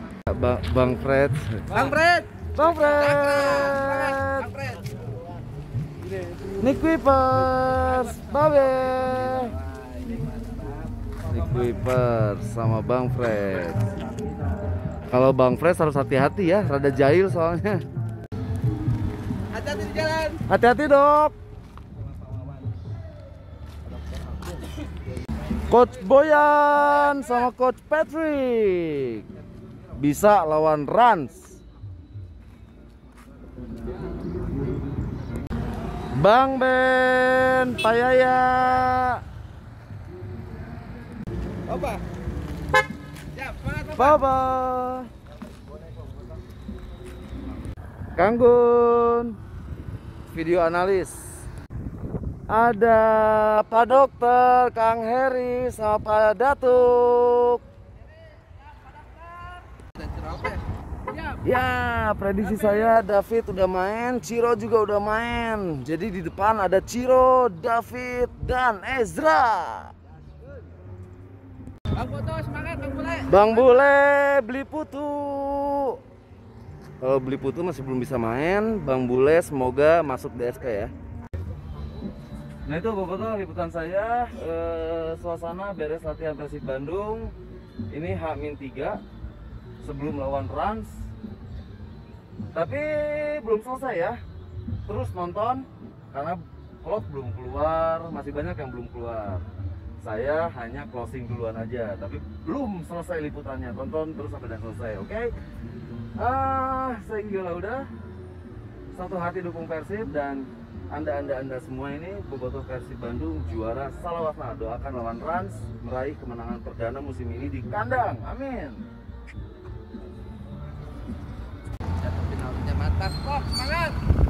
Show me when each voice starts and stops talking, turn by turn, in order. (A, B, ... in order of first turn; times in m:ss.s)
0:00.3-0:01.8 A
0:01.7-0:04.9 B
0:02.6-0:04.5 A
0:06.6-0:09.5 A
0:07.8-0:11.6 B
0:11.3-0:13.9 A
0:15.1-0:17.8 A
0:19.5-0:20.4 B
0:20.5-0:21.3 A
0:25.7-0:29.2 A
0:30.0-0:31.6 A
0:36.1-0:39.2 A
0:41.7-0:42.0 B
0:43.3-0:44.2 B
0:43.9-0:45.1 A
0:48.2-0:49.4 A
0:50.3-0:51.5 A
0:52.5-0:57.6 A
0:59.2-1:00.7 B
1:01.4-1:09.9 A
1:02.5-1:02.9 B
1:11.9-1:13.9 B
1:13.3-1:16.0 A
1:17.0-1:20.9 A
1:22.6-1:27.3 A
1:27.9-1:29.0 A
1:29.8-1:31.0 A
1:32.5-1:34.2 A
1:34.9-1:39.4 A
1:40.0-1:45.3 A
1:46.2-1:47.9 A
1:48.9-1:58.8 A
2:02.0-2:04.0 B